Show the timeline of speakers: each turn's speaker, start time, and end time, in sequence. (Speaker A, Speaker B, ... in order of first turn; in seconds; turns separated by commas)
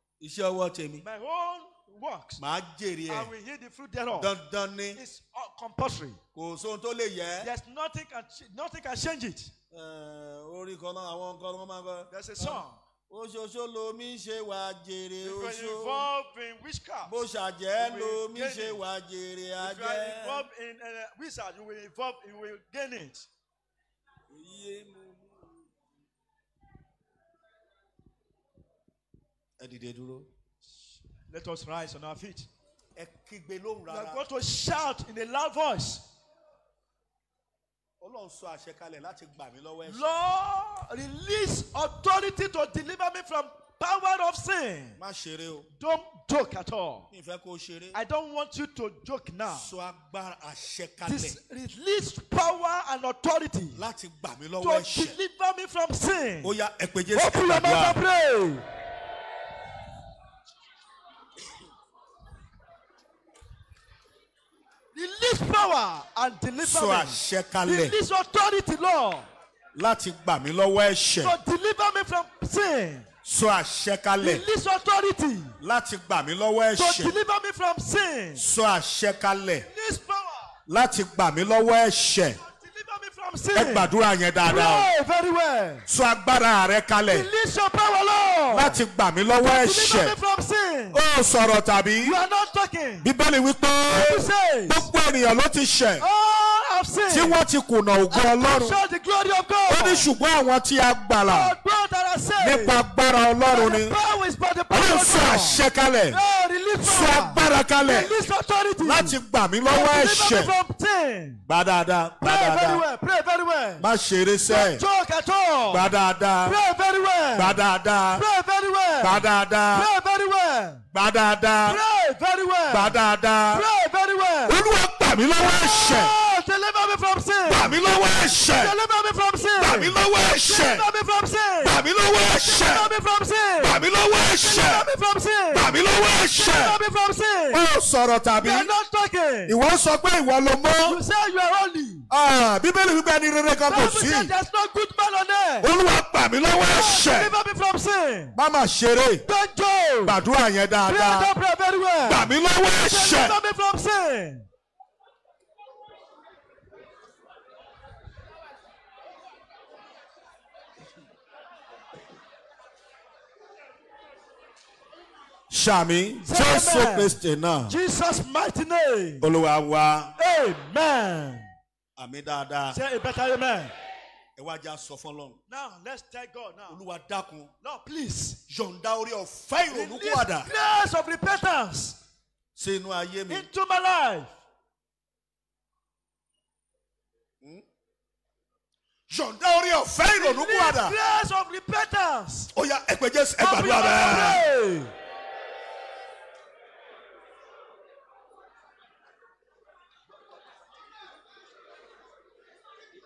Speaker A: 0.2-1.0, Speaker B: 1.0-2.4, Speaker A: 2.4-3.3, Speaker B: 3.1-4.3, Speaker A: 4.1-5.0, Speaker B: 4.9-6.2, Speaker A: 6.3-7.5, Speaker B: 7.4-9.5, Speaker A: 9.7-16.1, Speaker B: 12.1-12.8, Speaker B: 15.2-17.2, Speaker A: 17.0-20.5, Speaker B: 17.8-18.8, Speaker B: 19.6-23.3, Speaker A: 24.3-25.6, Speaker A: 29.6-30.3, Speaker B: 31.1-32.5, Speaker A: 33.0-34.2, Speaker B: 33.9-36.0, Speaker A: 38.0-40.1, Speaker B: 39.8-45.0, Speaker A: 45.0-45.7, Speaker B: 45.7-47.1, Speaker A: 47.1-48.0, Speaker B: 47.9-49.7, Speaker A: 49.5-51.4, Speaker B: 51.0-53.8, Speaker A: 53.7-55.2, Speaker B: 54.6-56.5, Speaker A: 56.4-58.0, Speaker B: 57.1-58.6, Speaker B: 64.9-69.3, Speaker A: 66.6-68.0, Speaker A: 69.7-71.3, Speaker B: 71.2-73.1, Speaker A: 73.2-74.4, Speaker B: 74.2-75.6, Speaker A: 75.6-77.1, Speaker B: 76.8-78.5, Speaker A: 78.3-79.7, Speaker B: 79.6-80.6, Speaker A: 80.7-82.4, Speaker B: 82.4-83.9, Speaker A: 83.5-84.9, Speaker B: 84.4-85.8, Speaker A: 85.9-87.3, Speaker B: 87.1-88.8, Speaker A: 88.5-90.1, Speaker B: 89.4-91.0, Speaker A: 90.9-92.2, Speaker B: 92.0-93.1, Speaker A: 93.0-96.0, Speaker B: 93.9-94.9, Speaker B: 96.0-97.4, Speaker A: 97.1-98.8, Speaker B: 98.1-100.1, Speaker A: 99.7-101.5, Speaker B: 101.3-102.8, Speaker A: 102.4-103.9, Speaker B: 103.5-111.4, Speaker A: 104.7-106.2, Speaker A: 106.8-108.1, Speaker A: 108.8-110.5, Speaker A: 111.5-112.8, Speaker B: 112.2-113.8, Speaker A: 113.8-114.8, Speaker B: 114.5-115.9, Speaker A: 115.7-116.6, Speaker B: 116.4-117.6, Speaker A: 117.3-118.2, Speaker B: 118.1-120.8, Speaker A: 119.0-119.9, Speaker A: 120.9-121.8, Speaker B: 121.6-123.0, Speaker A: 122.7-123.7, Speaker B: 123.5-124.6, Speaker A: 124.5-126.1, Speaker B: 125.4-137.6, Speaker A: 127.5-128.8, Speaker A: 129.6-130.8, Speaker A: 131.6-132.9, Speaker A: 133.6-134.9, Speaker A: 135.5-136.8, Speaker A: 137.5-138.7, Speaker B: 138.4-139.6, Speaker A: 139.5-141.0, Speaker B: 140.8-142.1, Speaker A: 142.1-144.3, Speaker B: 143.7-145.7, Speaker A: 145.6-147.3, Speaker B: 146.5-148.3, Speaker A: 148.3-149.2, Speaker B: 149.2-150.2, Speaker A: 150.0-151.3, Speaker B: 150.8-154.4, Speaker A: 152.0-153.4, Speaker A: 165.5-167.8, Speaker B: 166.2-169.3, Speaker A: 169.2-170.1, Speaker B: 170.2-171.5, Speaker A: 172.0-172.8, Speaker B: 172.7-173.7, Speaker A: 174.3-175.4, Speaker B: 175.5-176.8, Speaker A: 176.7-177.5, Speaker B: 177.6-178.4, Speaker A: 178.5-180.5, Speaker B: 179.7-182.0, Speaker A: 182.6-183.5, Speaker B: 183.3-184.4, Speaker A: 189.1-191.0, Speaker B: 190.1-192.5, Speaker A: 192.5-194.4, Speaker B: 193.4-194.9